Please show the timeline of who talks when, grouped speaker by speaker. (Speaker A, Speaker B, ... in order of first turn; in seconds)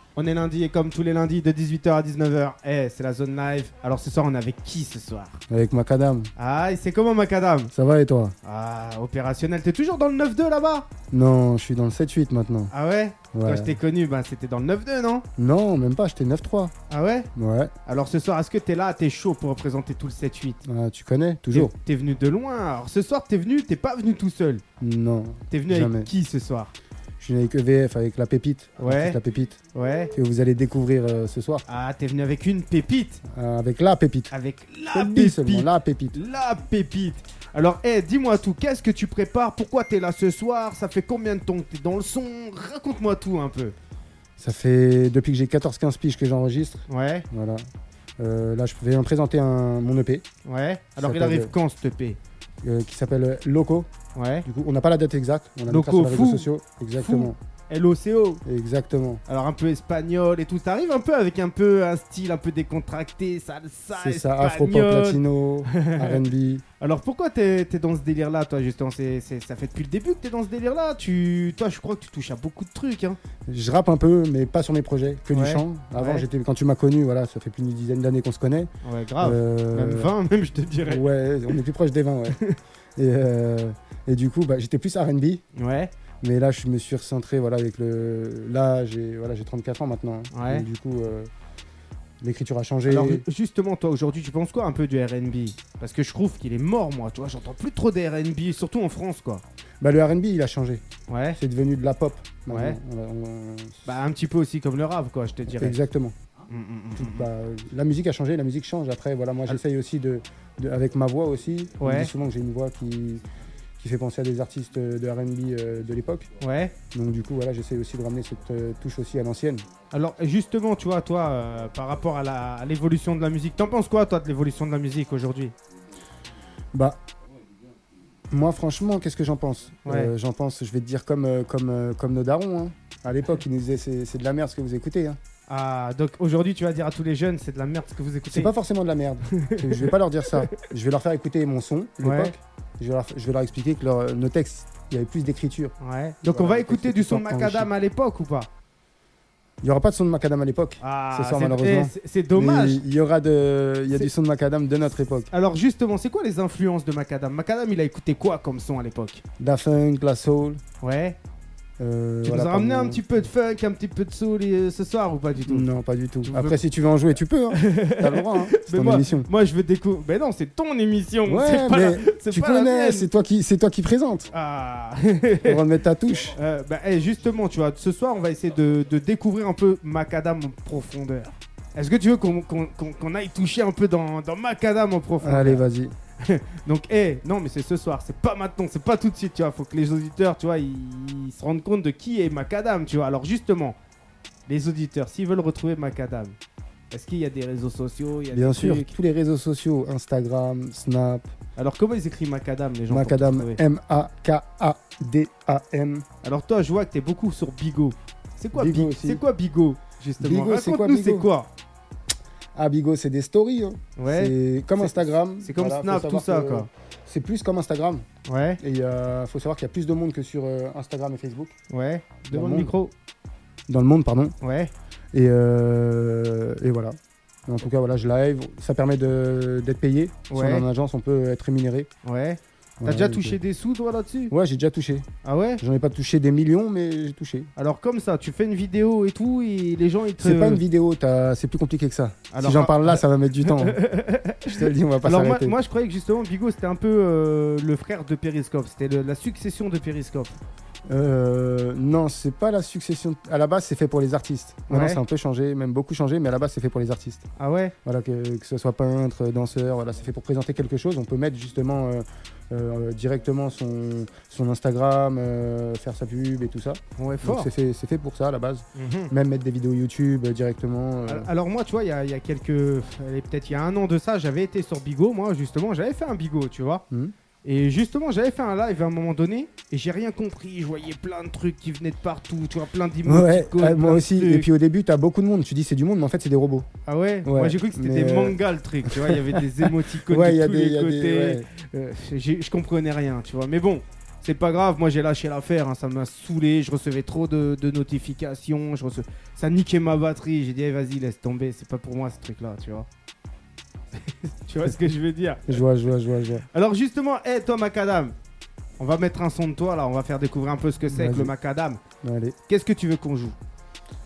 Speaker A: 0.1-5.4, 6.4-7.7, 8.4-10.9, 12.7-15.2, 16.9-17.3, 17.9-20.6, 21.5-24.6, 25.5-26.7, 28.8-29.2, 29.7-30.1, 31.7-33.2, 34.3-43.7, 46.9-47.2, 50.4-52.2, 54.1-54.5, 55.7-58.4, 59.3-66.2, 66.8-73.2, 75.3-76.2, 78.8-81.1, 82.3-82.5, 85.5-85.9, 90.3-90.6, 92.9-99.4, 101.1-101.4, 102.5-102.8, 103.8-105.8, 106.5-107.3, 111.8-112.1, 116.4-116.8, 119.9-125.5, 129.8-130.1, 135.5-138.5, 139.3-140.5, 142.0-142.3, 145.8-148.5, 150.8-152.8, 155.3-159.2, 160.8-161.2, 162.2-165.7, 166.2-166.6, 167.5-173.1, 174.3-175.6, 176.3-185.6, 186.2-193.8, 194.5-196.4, 196.9-198.9, 201.6-203.6, 206.2-211.5, 214.0-216.7, 218.3-218.6, 221.7-222.9, 224.4-224.7, 230.3-230.6, 232.0-234.3, 235.2-235.6, 237.6-240.6, 242.3-250.4, 254.7-255.0, 257.4-257.7, 267.0-267.5, 268.8-269.1, 271.1-276.8, 277.4-284.5, 286.9-302.9, 303.9-305.6, 306.5-308.1, 308.8-311.8, 312.5-313.4
Speaker B: 5.5-6.3, 7.7-8.3, 11.1-12.7, 13.3-13.8, 15.4-16.7, 17.3-17.7, 20.6-21.7, 24.8-26.1, 27.2-29.6, 30.1-31.6, 33.3-34.3, 34.9-36.2, 44.4-47.6, 48.2-50.2, 51.0-51.5, 52.6-53.9, 54.4-57.4, 58.4-59.2, 63.9-66.6, 73.5-78.7, 79.2-80.1, 80.8-82.4, 83.0-85.4, 86.2-91.3, 92.2-93.2, 99.8-100.8, 101.3-104.0, 105.5-106.1, 107.0-113.2, 113.8-116.3, 116.9-119.6, 126.7-127.0, 128.3-135.2, 138.3-145.7, 146.3-147.7, 149.6-155.3, 159.4-160.6, 161.8-163.0, 165.4-169.3, 171.2-174.3, 175.4-176.4, 185.2-185.9, 198.3-201.3, 202.9-206.0, 208.5-209.2, 210.2-211.3, 212.5-218.1, 218.6-221.5, 222.3-222.7, 223.7-224.3, 225.1-231.9, 232.8-233.4, 234.3-235.1, 235.6-237.5, 240.2-243.8, 244.5-245.6, 250.9-257.3, 257.8-271.3, 283.0-286.7, 287.2-289.4, 290.1-291.4, 305.5-306.4, 310.9-311.3, 312.0-312.4